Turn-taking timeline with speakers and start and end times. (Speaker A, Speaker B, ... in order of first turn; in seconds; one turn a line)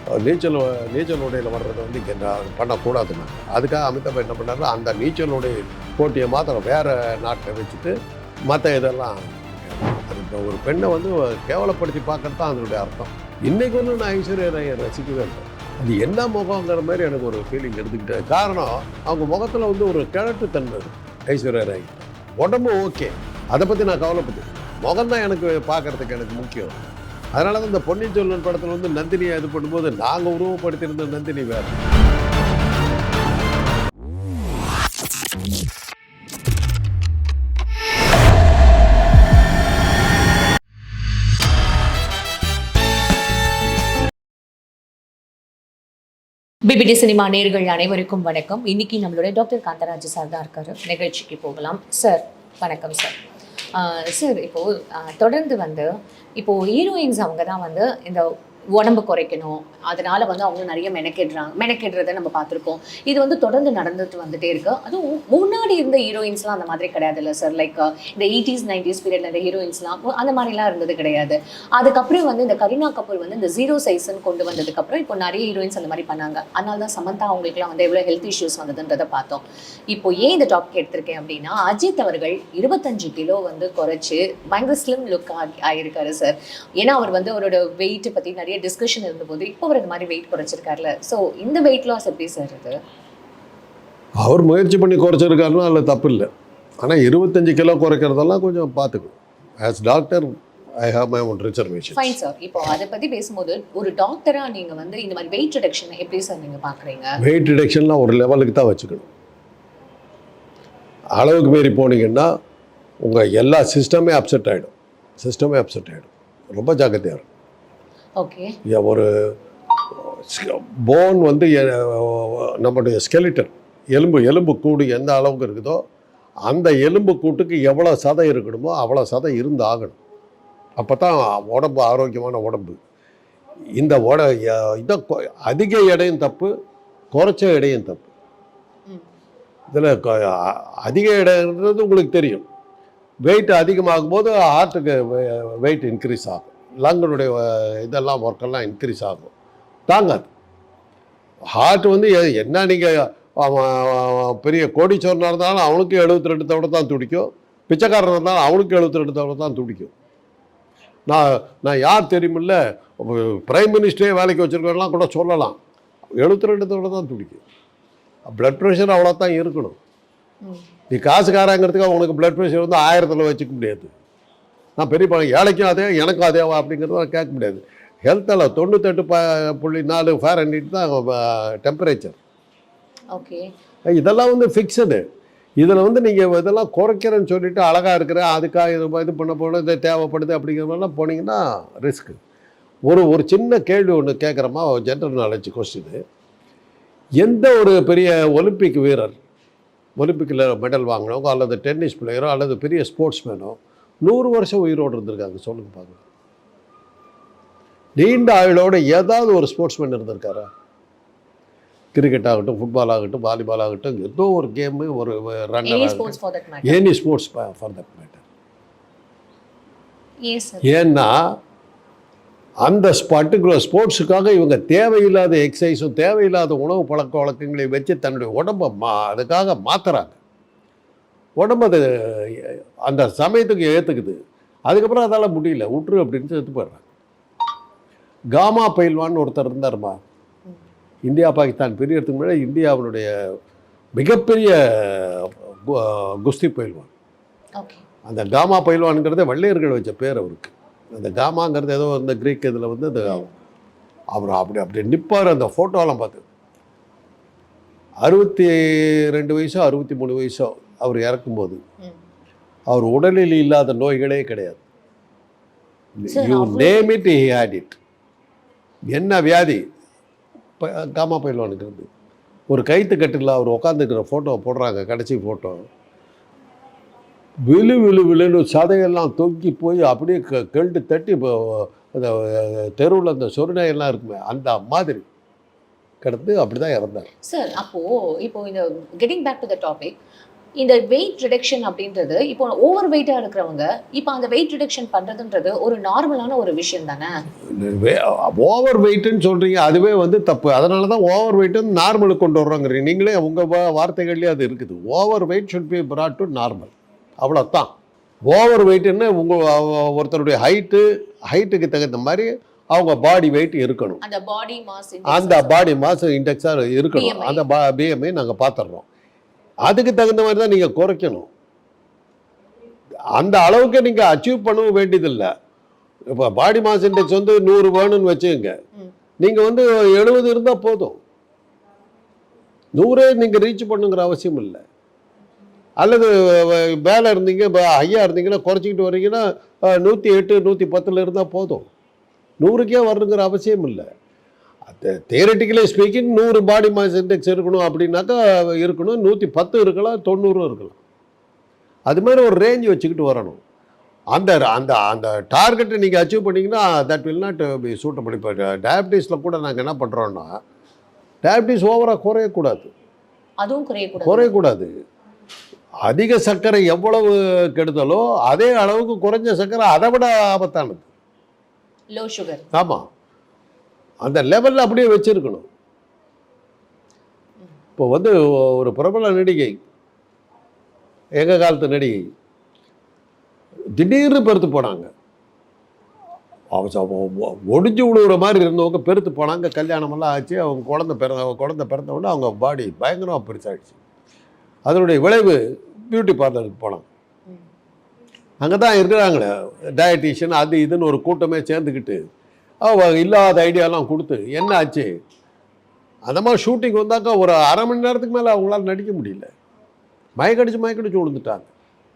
Speaker A: 0.2-8.0
Speaker A: 8.5-31.8
Speaker B: 46.7-53.2
Speaker B: 53.7-92.8
Speaker A: 94.2-96.3
Speaker A: 96.8-102.2
Speaker B: 101.9-107.2
Speaker A: 107.2-109.1
Speaker A: 111.2-112.3
Speaker A: 113.0-117.3
Speaker B: 118.2-118.5
Speaker A: 118.7-119.1
Speaker A: 119.9-125.8
Speaker A: 126.5-130.0
Speaker A: 130.8-132.8
Speaker A: 133.8-136.5
Speaker A: 137.1-138.1
Speaker A: 139.7-142.5
Speaker A: 143.2-149.3
Speaker A: 149.9-150.3
Speaker A: 151.5-159.9
Speaker A: 161.1-165.6
Speaker A: 166.2-167.4
Speaker A: 168.3-169.8
Speaker A: 170.9-173.9
Speaker A: 174.8-182.2
Speaker B: 183.2-183.5
Speaker A: 183.9-185.0
Speaker A: 185.6-192.2
Speaker A: 192.9-196.0
Speaker A: 197.2-199.2
Speaker A: 200.0-206.0
Speaker A: 208.0-210.5
Speaker A: 211.9-218.2
Speaker B: 215.6-216.8
Speaker B: 220.2-220.7
Speaker A: 220.7-221.2
Speaker A: 222.6-230.2
Speaker A: 231.4-236.8
Speaker A: 238.3-240.0
Speaker A: 241.1-243.1
Speaker A: 244.0-246.9
Speaker B: 247.6-247.8
Speaker A: 248.1-253.3
Speaker A: 254.1-256.3
Speaker A: 258.0-261.6
Speaker A: 262.7-264.6
Speaker A: 266.0-267.8
Speaker B: 266.1-267.0
Speaker A: 268.9-269.6
Speaker A: 270.6-271.9
Speaker A: 272.5-275.7
Speaker A: 277.5-285.1
Speaker A: 286.0-287.1
Speaker B: 287.2-289.9
Speaker B: 290.6-297.1
Speaker A: 297.5-307.7
Speaker A: 308.3-314.0
Speaker B: 314.0-315.7
Speaker A: 315.1-318.9
Speaker B: 316.9-317.4
Speaker A: 319.6-321.3
Speaker A: 323.2-325.3
Speaker A: 326.1-328.6
Speaker A: 329.2-331.0
Speaker A: 332.8-334.6
Speaker A: 335.8-341.7
Speaker A: 342.4-343.9
Speaker A: 344.6-350.8
Speaker A: 351.9-353.4
Speaker A: 354.1-360.4
Speaker A: 361.2-362.7
Speaker B: 363.4-364.3
Speaker A: 364.0-364.7
Speaker A: 365.9-370.9
Speaker B: 371.9-372.5
Speaker A: 372.5-372.9
Speaker A: 374.1-375.5
Speaker A: 377.8-379.6
Speaker A: 381.2-382.0
Speaker A: 383.8-384.9
Speaker A: 386.5-393.8
Speaker A: 394.7-396.9
Speaker A: 398.4-402.0
Speaker A: 402.6-404.9
Speaker A: 406.1-409.3
Speaker A: 410.2-411.5